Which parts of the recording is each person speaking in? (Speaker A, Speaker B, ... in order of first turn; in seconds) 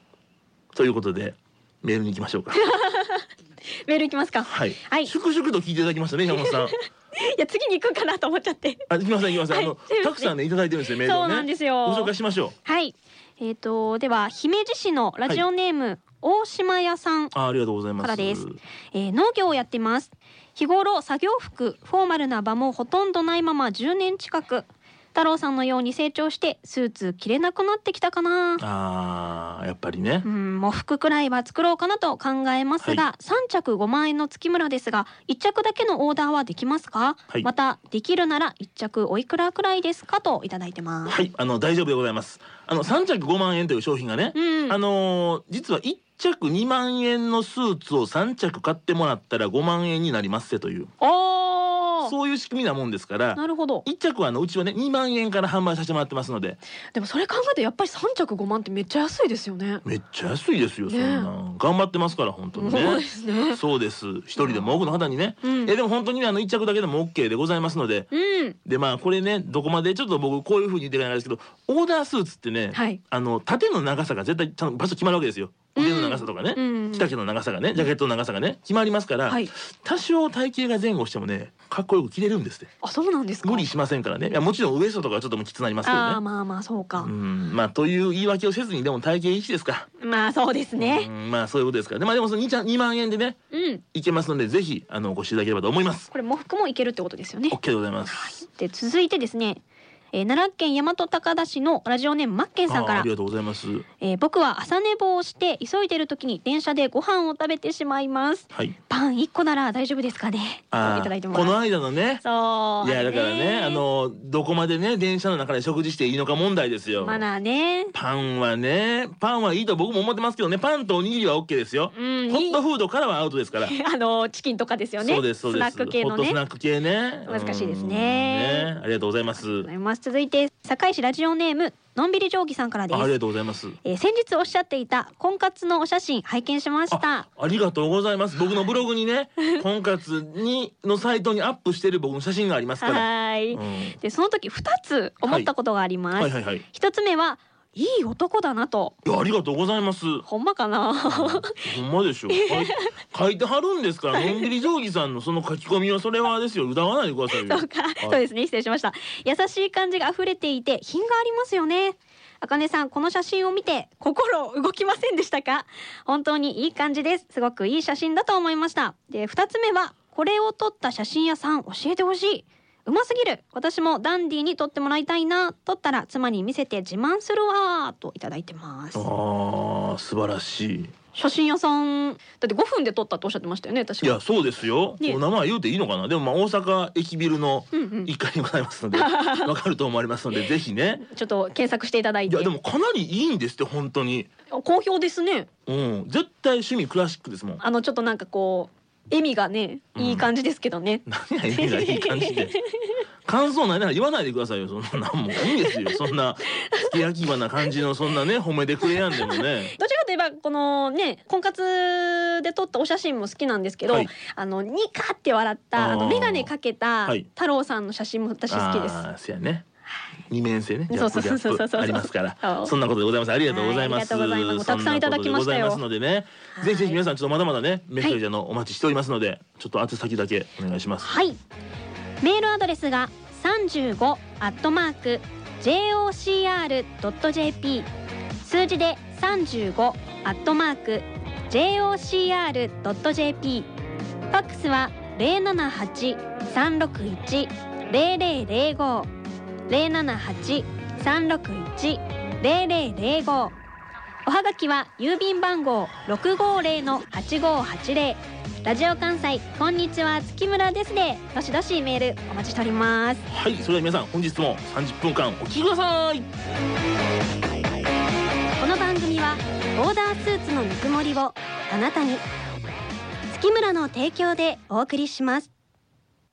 Speaker A: 0.7-2.6, 4.4-6.8, 8.9-12.5, 17.3-18.6, 28.6-30.2, 41.1-50.9, 52.0-56.6, 59.8-68.1, 68.6-82.7, 83.4-86.2, 87.0-89.9, 90.8-93.4, 93.9-96.1, 97.5-98.4, 102.7-103.9, 110.7-112.2, 112.8-117.2, 117.9-123.8, 125.0-129.7, 132.9-133.8, 136.9-144.0, 146.2-146.6, 149.1-150.2, 151.1-158.2, 178.9-180.9, 184.0-191.0, 192.3-194.3, 195.7-197.6, 200.0-200.3, 201.1-202.6, 203.2-209.8, 215.8-216.5, 218.5-219.6, 220.3-231.1, 263.3-266.3
Speaker B: 2.5-3.3, 3.9-5.1, 6.3-8.9, 9.4-10.3, 10.9-12.1, 12.7-17.3, 18.0-28.6, 30.2-41.2, 44.3-44.8, 51.0-52.1, 53.4-53.9, 56.9-59.8, 60.9-61.3, 62.5-63.6, 64.4-64.6, 65.4-65.7, 68.1-68.6, 72.7-73.0, 75.8-77.1, 82.8-83.7, 85.8-87.1, 90.0-91.1, 93.5-93.8, 96.1-97.6, 98.1-99.6, 100.1-103.1, 104.0-111.6, 112.2-113.8, 117.0-117.9, 121.9-122.6, 123.6-126.4, 127.3-128.7, 129.4-133.2, 133.8-137.3, 142.8-148.9, 150.2-151.6, 152.3-152.9, 154.1-154.5, 157.3-179.1, 181.1-184.2, 187.7-188.1, 188.9-189.5, 191.0-192.5, 194.5-195.5, 197.6-202.7, 205.6-206.0, 206.7-207.0, 209.0-219.1, 220.9-222.7, 223.5-225.8, 226.6-227.0, 231.0-231.4, 232.2-237.9, 238.4-243.7, 244.3-249.1, 249.7-253.5, 254.2-263.2, 268.6-272.2, 273.3-275.5